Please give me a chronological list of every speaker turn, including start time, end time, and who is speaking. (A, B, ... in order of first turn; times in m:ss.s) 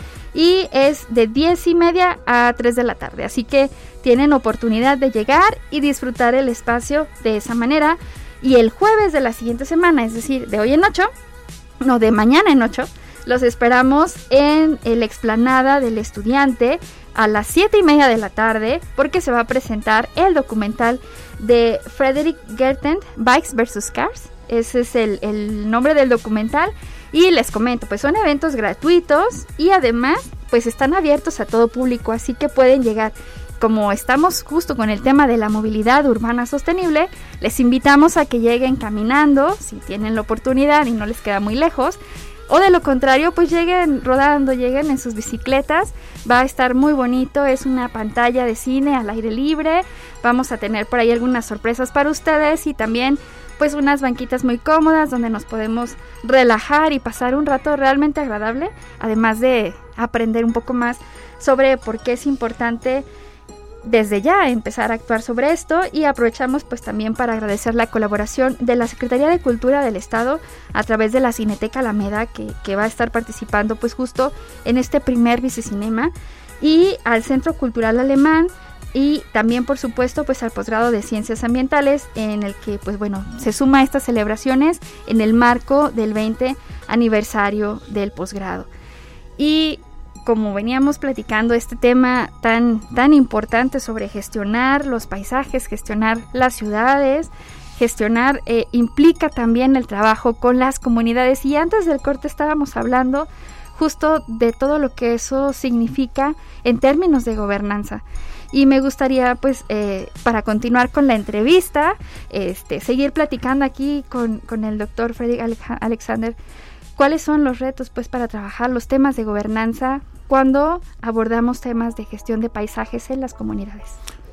0:00.3-0:11.1 A
0:11.8-1:03.0 A
1:03.8-1:28.7 A
1:29.4-1:56.4 A
1:57.0-2:04.0 A